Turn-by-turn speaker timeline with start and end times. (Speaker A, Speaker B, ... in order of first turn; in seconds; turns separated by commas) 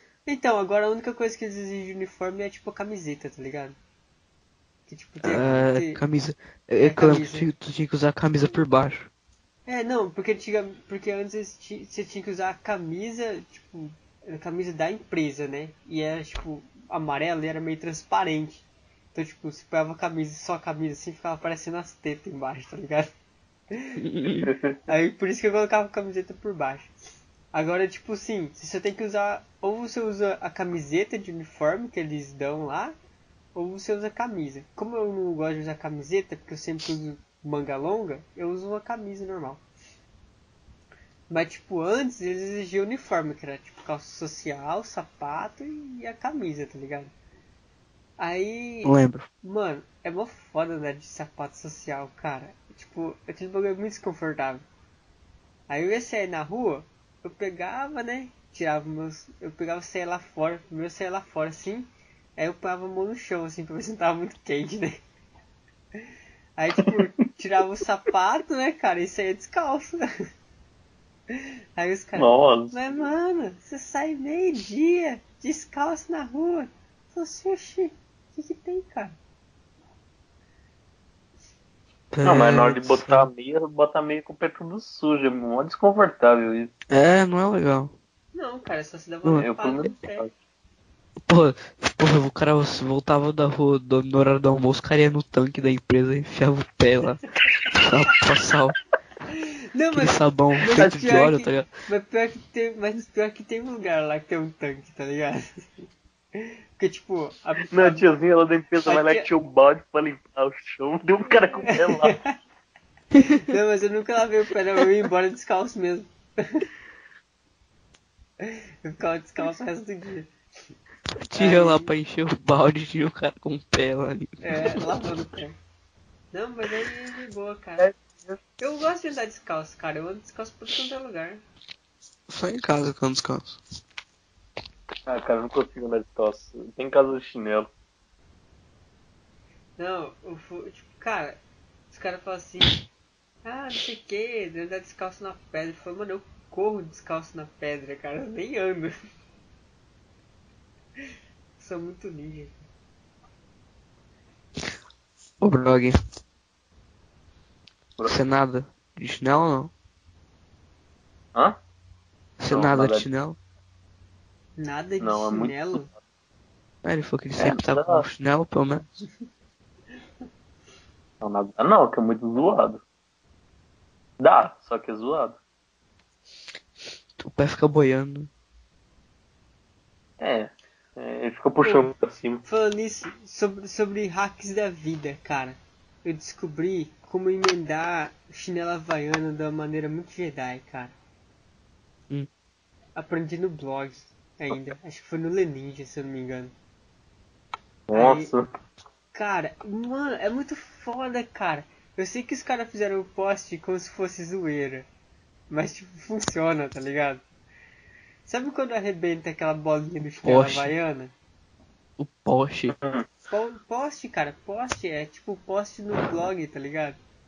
Speaker A: 0.2-3.8, Speaker A: 4.9-6.0, Speaker B: 5.2-9.1, Speaker A: 6.8-7.5, Speaker A: 9.7-23.1, Speaker A: 23.7-24.0, Speaker B: 24.0-24.5, Speaker C: 24.4-24.8, Speaker A: 24.9-26.9, Speaker A: 27.5-32.9, Speaker A: 33.5-39.6, Speaker A: 41.3-47.1, Speaker A: 48.2-54.6, Speaker B: 48.8-49.2, Speaker A: 55.7-65.0, Speaker A: 66.6-70.0, Speaker A: 71.3-79.2, Speaker C: 72.2-72.8, Speaker B: 82.1-83.3, Speaker C: 82.2-86.7, Speaker B: 86.9-87.9, Speaker A: 88.3-90.3, Speaker C: 89.3-90.3, Speaker B: 91.3-98.8, Speaker A: 99.3-105.8, Speaker B: 99.9-101.7, Speaker A: 106.3-108.1, Speaker C: 107.7-112.2, Speaker A: 108.8-109.3, Speaker A: 111.3-112.3, Speaker B: 113.2-113.4, Speaker A: 113.3-116.7, Speaker A: 118.4-120.3, Speaker B: 121.2-125.0, Speaker A: 121.3-121.9, Speaker A: 124.4-125.5, Speaker A: 126.3-127.9, Speaker C: 127.8-128.4, Speaker A: 128.6-131.4, Speaker B: 132.3-133.6, Speaker C: 135.1-137.7, Speaker A: 139.8-141.4, Speaker A: 141.9-142.8, Speaker A: 143.4-148.9, Speaker A: 151.6-152.6, Speaker B: 155.4-155.9, Speaker B: 158.1-159.7, Speaker B: 162.4-163.4, Speaker C: 162.5-163.1, Speaker A: 164.6-165.9, Speaker C: 165.0-165.8, Speaker B: 166.8-168.9, Speaker C: 167.4-168.0, Speaker C: 171.2-172.8, Speaker C: 174.2-175.4, Speaker B: 177.2-178.3, Speaker C: 180.2-182.4, Speaker A: 181.6-181.9, Speaker A: 182.4-190.9, Speaker A: 192.9-196.5, Speaker C: 197.9-198.5, Speaker A: 197.9-198.3, Speaker A: 199.1-204.8, Speaker A: 205.5-207.2, Speaker A: 208.2-211.1, Speaker B: 210.2-210.7, Speaker B: 212.0-212.8, Speaker C: 212.7-213.0, Speaker A: 213.3-217.0